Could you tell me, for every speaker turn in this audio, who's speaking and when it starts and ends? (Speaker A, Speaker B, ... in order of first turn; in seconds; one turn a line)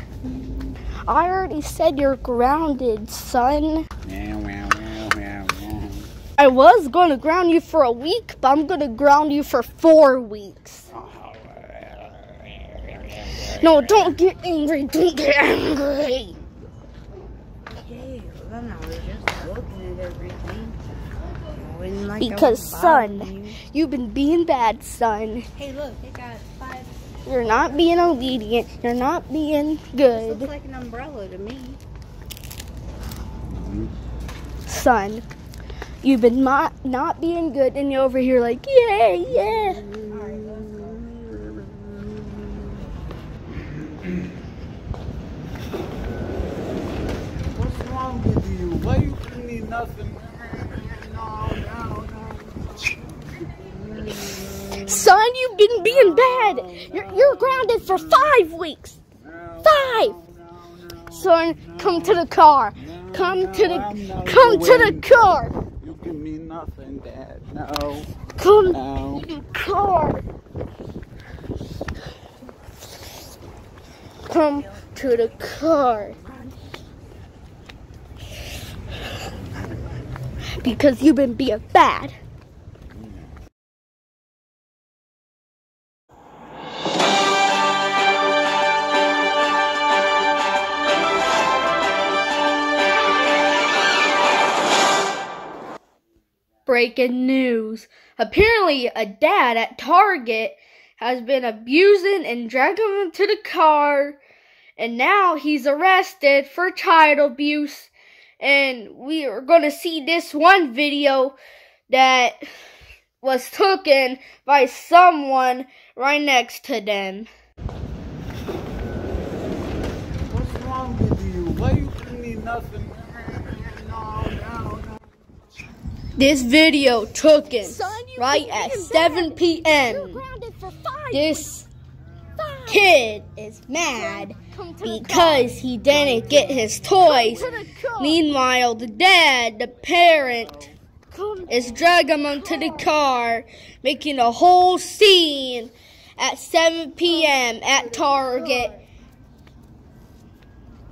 Speaker A: 1.0-3.9
Speaker B: 4.0-6.1
Speaker A: 6.4-10.9
Speaker B: 10.9-12.1
Speaker B: 12.7-14.2
Speaker A: 13.5-16.4
Speaker C: 17.8-20.8
Speaker C: 21.5-23.6
Speaker A: 22.2-25.4
Speaker C: 25.6-28.0
Speaker A: 27.2-30.5
Speaker C: 30.1-31.8
Speaker B: 33.4-33.9
Speaker A: 34.7-35.2
Speaker A: 36.0-39.8
Speaker B: 39.3-42.8
Speaker C: 40.1-41.1
Speaker B: 47.5-52.7
Speaker B: 53.5-58.4
Speaker A: 54.8-59.0
Speaker B: 59.2-62.2
Speaker A: 59.6-60.1
Speaker A: 61.1-65.5
Speaker B: 62.7-68.1
Speaker A: 68.4-70.2
Speaker B: 68.7-69.3
Speaker A: 74.3-76.2
Speaker C: 76.2-76.5
Speaker A: 80.6-82.1
Speaker B: 82.9-83.2
Speaker A: 96.7-104.2
Speaker A: 104.8-111.4
Speaker A: 111.9-112.5
Speaker A: 113.2-117.3
Speaker B: 120.3-125.0
Speaker A: 126.2-130.2
Speaker D: 127.4-131.6
Speaker A: 131.1-131.6
Speaker D: 132.4-132.8
Speaker A: 132.7-140.6
Speaker D: 133.7-138.2
Speaker B: 135.9-137.7
Speaker D: 141.1-142.9
Speaker A: 141.5-148.8
Speaker D: 147.6-148.7